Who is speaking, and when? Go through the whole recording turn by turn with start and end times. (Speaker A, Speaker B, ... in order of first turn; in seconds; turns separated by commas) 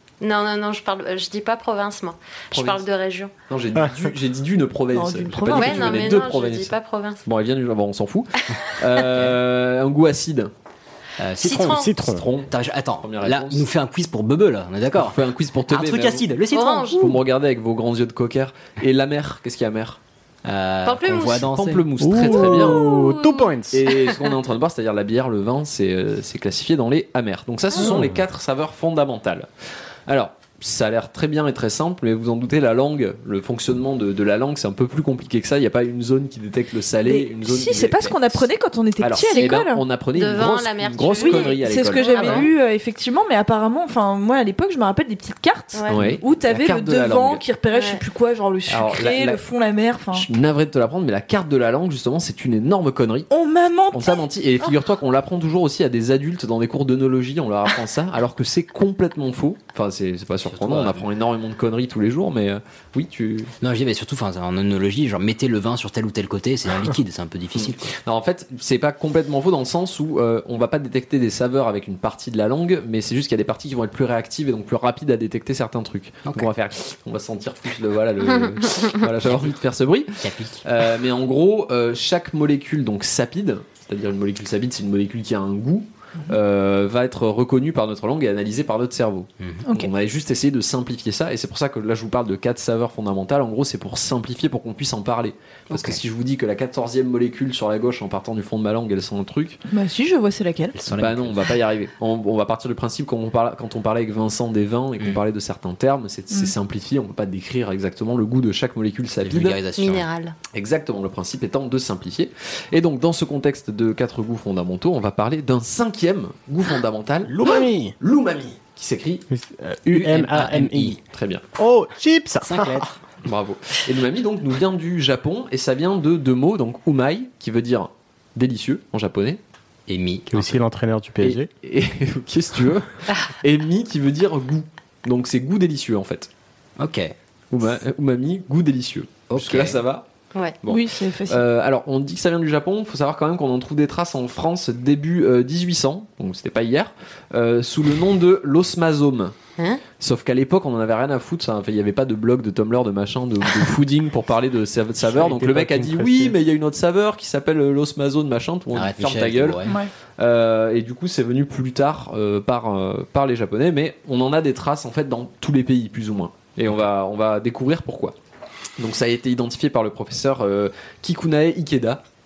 Speaker A: 0.2-3.3, Speaker B: 2.5-2.8, Speaker B: 3.5-6.7, Speaker C: 3.8-4.1, Speaker D: 4.9-6.2, Speaker A: 5.5-7.2, Speaker B: 7.2-10.5, Speaker E: 11.2-15.2, Speaker A: 11.4-12.0, Speaker C: 11.7-12.3, Speaker B: 12.0-12.5, Speaker B: 13.0-13.7, Speaker B: 14.9-16.2, Speaker E: 15.7-16.9, Speaker A: 16.5-17.2, Speaker B: 16.9-20.0, Speaker E: 20.4-21.9, Speaker A: 20.8-21.5, Speaker B: 21.5-22.8, Speaker C: 22.0-23.8, Speaker A: 22.2-23.9, Speaker B: 23.7-37.9, Speaker A: 27.7-28.0, Speaker C: 27.8-28.2, Speaker D: 37.0-39.8, Speaker E: 37.7-38.4, Speaker B: 39.0-42.5, Speaker A: 40.1-42.5, Speaker D: 41.0-50.3, Speaker A: 45.7-46.0, Speaker B: 45.9-47.4, Speaker A: 47.7-48.0, Speaker B: 48.7-49.4, Speaker B: 50.1-53.3, Speaker D: 53.3-54.2, Speaker B: 53.9-63.5, Speaker E: 60.5-61.0, Speaker E: 63.6-67.9, Speaker B: 67.6-99.6, Speaker E: 80.2-80.6, Speaker E: 95.7-96.0, Speaker D: 99.7-100.8, Speaker E: 100.7-101.5, Speaker B: 100.9-109.6, Speaker E: 109.2-110.1, Speaker A: 109.8-110.3, Speaker B: 110.5-119.2, Speaker C: 117.3-118.0, Speaker C: 119.3-121.0, Speaker E: 119.9-121.0, Speaker B: 121.1-121.4, Speaker C: 121.5-122.8, Speaker E: 122.4-123.0, Speaker B: 123.2-129.4, Speaker E: 129.9-130.6, Speaker C: 130.3-131.5, Speaker B: 131.2-136.3, Speaker E: 136.8-137.1, Speaker B: 137.5-140.0, Speaker E: 139.3-139.8, Speaker B: 140.6-149.3, Speaker D: 140.7-141.4, Speaker B: 150.0-159.6, Speaker C: 155.0-156.3, Speaker E: 158.7-159.7, Speaker D: 159.6-159.9, Speaker B: 160.2-168.1, Speaker B: 168.8-172.0